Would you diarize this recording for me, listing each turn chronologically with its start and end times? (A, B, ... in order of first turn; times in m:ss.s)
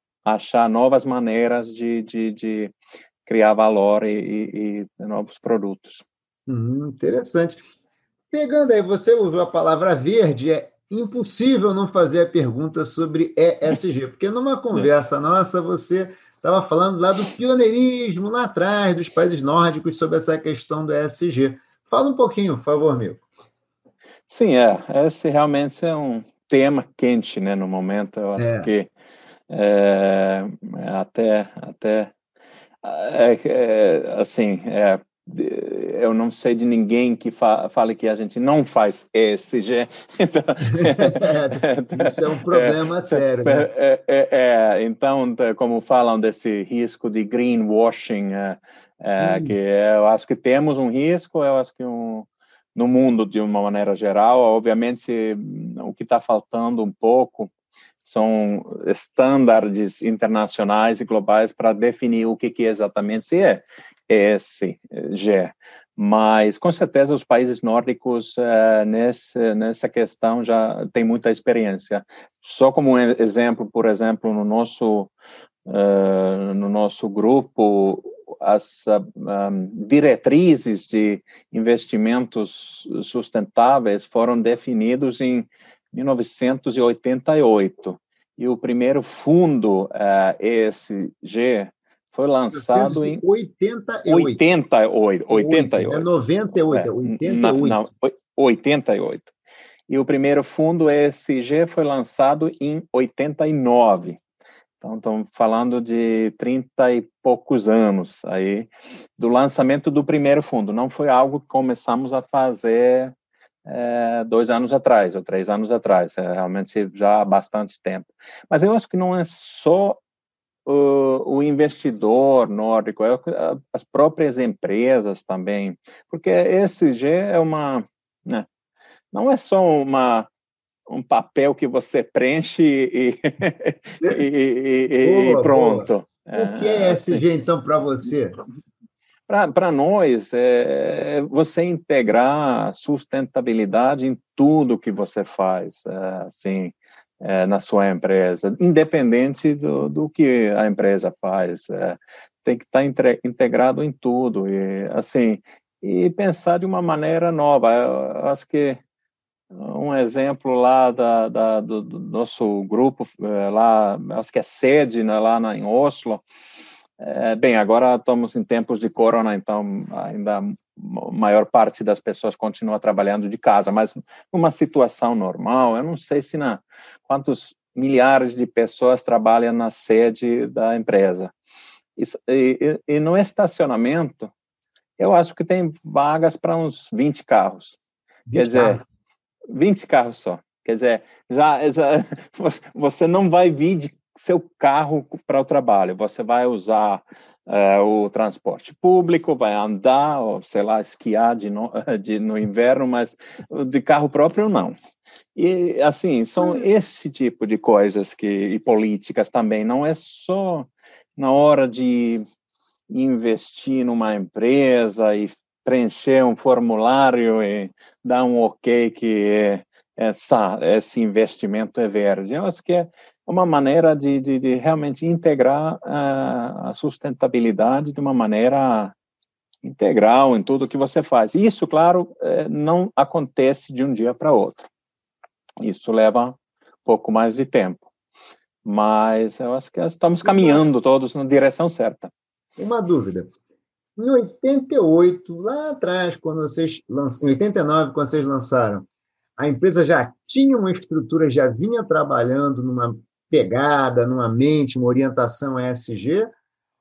0:00.2-0:02.7 A
0:03.2-0:06.0 A
0:06.5-0:07.6 B
0:08.3-0:23.2 B
0:24.3-0:28.9 A
0:28.4-0:28.7 B
0:29.5-0:32.1 A
0:32.8-0:57.5 A
0:40.7-0:43.7 B
0:49.2-0:49.6 B
0:58.0-1:15.1 A
1:15.6-1:33.2 A
1:32.5-1:34.4 B
1:34.0-1:36.1 A
1:35.3-1:37.8 B
1:36.7-1:39.3 A
1:39.9-1:44.2 A
1:44.8-1:53.1 A
1:53.6-2:00.0 A
2:00.6-2:08.4 A
2:09.1-2:10.3 A
2:10.9-2:17.2 A
2:15.0-2:18.4 B
2:19.3-2:38.8 A
2:39.5-2:46.2 A
2:47.0-3:01.3 A
3:02.0-3:04.3 A
3:05.0-3:07.8 A
3:08.3-3:08.8 B
3:08.3-3:08.8 A
3:09.5-3:24.7 A
3:25.3-3:32.2 A
3:32.9-3:48.9 A
3:49.6-3:54.7 A
3:55.6-3:57.9 A
3:58.6-4:02.1 A
4:00.2-4:00.6 B
4:02.6-4:03.3 B
4:04.0-4:08.8 B
4:09.4-4:16.3 B